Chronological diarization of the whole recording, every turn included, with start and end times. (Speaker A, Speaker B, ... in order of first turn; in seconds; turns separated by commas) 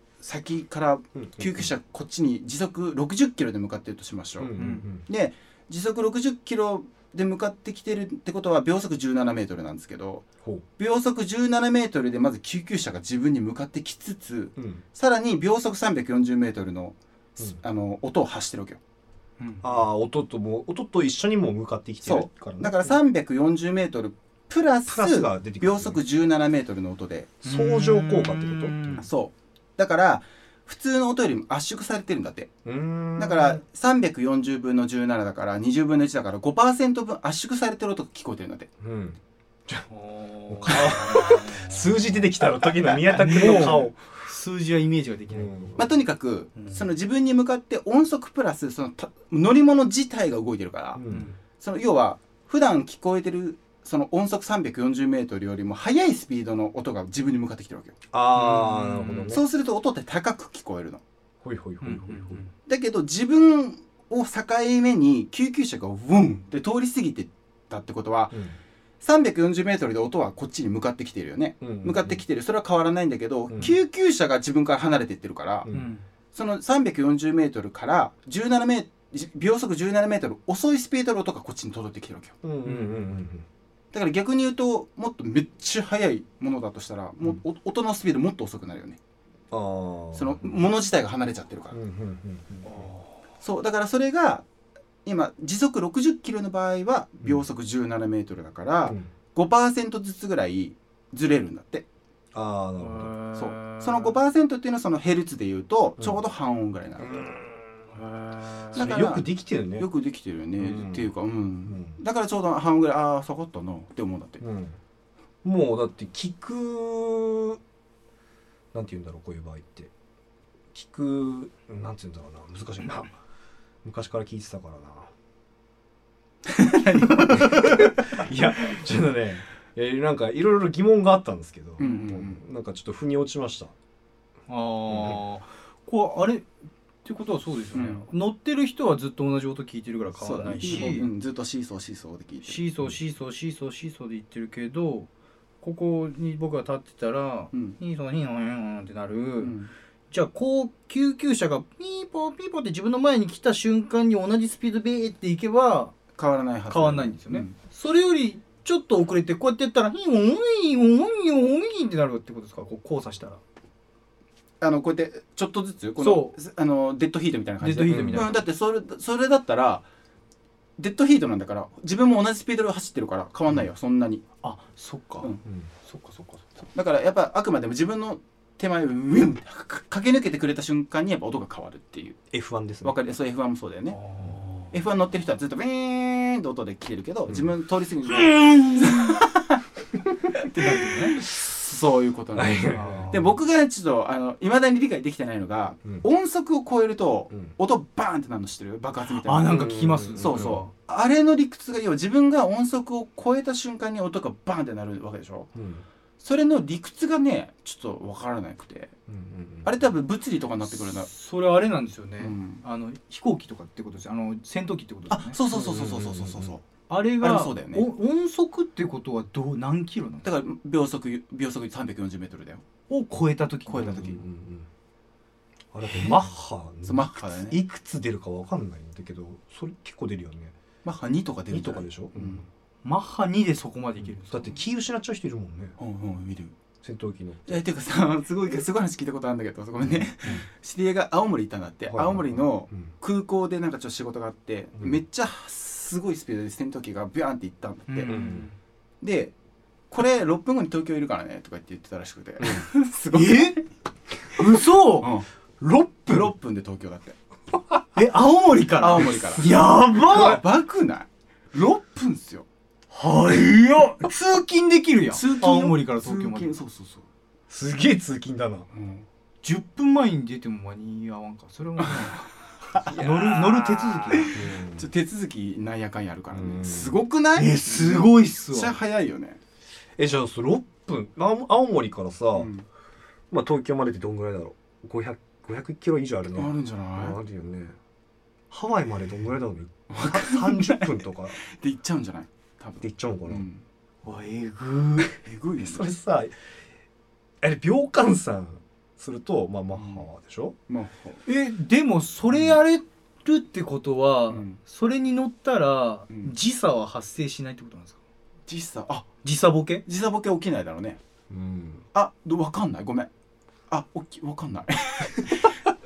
Speaker A: 0.2-10.3, Speaker B: 1.2-1.7, Speaker B: 4.4-5.0, Speaker C: 4.6-4.9, Speaker A: 10.8-18.8, Speaker B: 14.6-14.8, Speaker C: 19.4-19.6, Speaker B: 19.6-23.0, Speaker A: 22.0-27.4, Speaker B: 24.9-26.0, Speaker B: 27.4-29.1, Speaker C: 27.4-29.1, Speaker A: 29.0-32.5, Speaker B: 32.6-33.6, Speaker A: 33.2-38.7, Speaker B: 38.8-39.9, Speaker C: 39.9-42.3, Speaker B: 40.5-44.0, Speaker C: 42.9-45.8, Speaker A: 43.5-43.8, Speaker B: 45.3-45.8, Speaker A: 45.8-58.0, Speaker C: 46.6-46.9, Speaker B: 51.0-51.4, Speaker B: 58.1-59.4, Speaker C: 58.3-59.4, Speaker A: 59.3-61.0, Speaker B: 61.4-62.4, Speaker C: 61.8-62.5, Speaker A: 62.7-68.4, Speaker B: 68.3-68.6, Speaker A: 69.0-75.7, Speaker B: 71.6-72.2, Speaker B: 73.5-73.8, Speaker B: 75.6-75.9, Speaker C: 75.7-76.0, Speaker A: 76.3-82.4, Speaker B: 82.4-83.5, Speaker C: 82.7-83.1, Speaker A: 83.9-89.0, Speaker B: 89.5-90.6, Speaker A: 90.1-91.8, Speaker B: 91.7-92.9, Speaker C: 92.7-93.2, Speaker A: 93.4-94.5, Speaker A: 95.0-101.9, Speaker B: 102.3-103.1, Speaker C: 102.8-104.2, Speaker A: 103.3-107.2, Speaker B: 107.0-107.8, Speaker C: 107.9-109.0, Speaker A: 108.7-114.4, Speaker B: 108.8-109.9, Speaker B: 110.6-111.1, Speaker B: 111.7-112.0, Speaker B: 114.4-114.8, Speaker B: 115.4-117.6, Speaker B: 118.7-119.9, Speaker B: 120.7-123.1, Speaker B: 123.8-125.1, Speaker A: 126.5-127.9, Speaker B: 127.3-133.7, Speaker A: 131.8-132.4, Speaker C: 131.8-132.1, Speaker C: 134.5-136.5, Speaker B: 134.9-135.2, Speaker C: 137.1-141.1, Speaker A: 137.7-138.1, Speaker A: 140.2-142.6, Speaker B: 140.6-140.9, Speaker C: 142.4-145.1, Speaker C: 145.6-149.6, Speaker A: 149.4-149.7, Speaker C: 150.1-156.0, Speaker A: 156.2-157.5, Speaker C: 156.7-163.4, Speaker A: 164.6-169.8, Speaker C: 166.0-166.4, Speaker C: 167.6-168.4, Speaker B: 167.9-168.3, Speaker A: 170.8-174.2, Speaker C: 174.4-176.5, Speaker A: 176.7-182.2, Speaker B: 182.3-183.0, Speaker A: 182.8-184.0, Speaker C: 183.9-184.8, Speaker A: 184.7-189.6, Speaker C: 188.4-189.0, Speaker A: 190.3-205.5, Speaker C: 190.5-191.2, Speaker B: 192.3-193.1, Speaker C: 192.7-193.4, Speaker C: 199.2-200.7, Speaker B: 199.5-200.6, Speaker B: 205.6-205.8, Speaker A: 206.2-208.9, Speaker B: 209.1-209.8, Speaker A: 209.6-211.1, Speaker C: 210.7-215.4, Speaker A: 212.2-212.6, Speaker A: 215.1-216.6, Speaker B: 215.5-216.6, Speaker C: 216.9-220.3, Speaker A: 217.2-217.9, Speaker A: 220.2-222.6, Speaker C: 222.9-224.2, Speaker A: 223.7-224.2, Speaker B: 223.8-224.7, Speaker B: 225.7-230.6, Speaker A: 226.8-227.6, Speaker A: 230.8-232.5, Speaker B: 231.5-232.5, Speaker C: 232.8-234.6, Speaker B: 234.2-235.8, Speaker A: 235.8-236.6, Speaker B: 236.8-237.6, Speaker A: 237.5-248.2, Speaker B: 239.8-240.5, Speaker B: 241.9-242.9, Speaker C: 247.9-248.6, Speaker B: 248.1-248.5, Speaker A: 249.0-249.3, Speaker A: 249.9-253.6, Speaker B: 252.4-252.7, Speaker C: 253.1-253.6, Speaker C: 254.4-256.3, Speaker A: 255.0-255.3, Speaker A: 256.1-257.2, Speaker C: 257.9-260.4, Speaker A: 258.8-262.5, Speaker C: 262.9-266.5, Speaker A: 265.1-267.1, Speaker B: 267.5-268.7, Speaker A: 268.7-269.1, Speaker C: 269.4-272.3, Speaker A: 272.7-273.0, Speaker C: 272.8-274.4, Speaker B: 272.9-274.9, Speaker A: 274.1-279.4, Speaker B: 276.3-277.0, Speaker C: 277.4-278.8, Speaker B: 280.0-282.5, Speaker A: 282.4-282.6, Speaker B: 283.3-287.8, Speaker A: 286.4-287.2, Speaker B: 288.5-291.4, Speaker A: 289.9-293.6, Speaker B: 292.8-293.5, Speaker C: 294.0-295.1, Speaker A: 295.2-295.9, Speaker B: 295.6-296.3, Speaker B: 297.4-300.6, Speaker A: 299.7-300.1, Speaker A: 300.7-301.2, Speaker C: 301.3-308.0, Speaker A: 304.3-304.6, Speaker A: 308.5-309.1, Speaker C: 309.2-309.8, Speaker A: 309.9-311.0, Speaker B: 311.3-311.9, Speaker A: 311.9-313.1, Speaker A: 313.7-315.6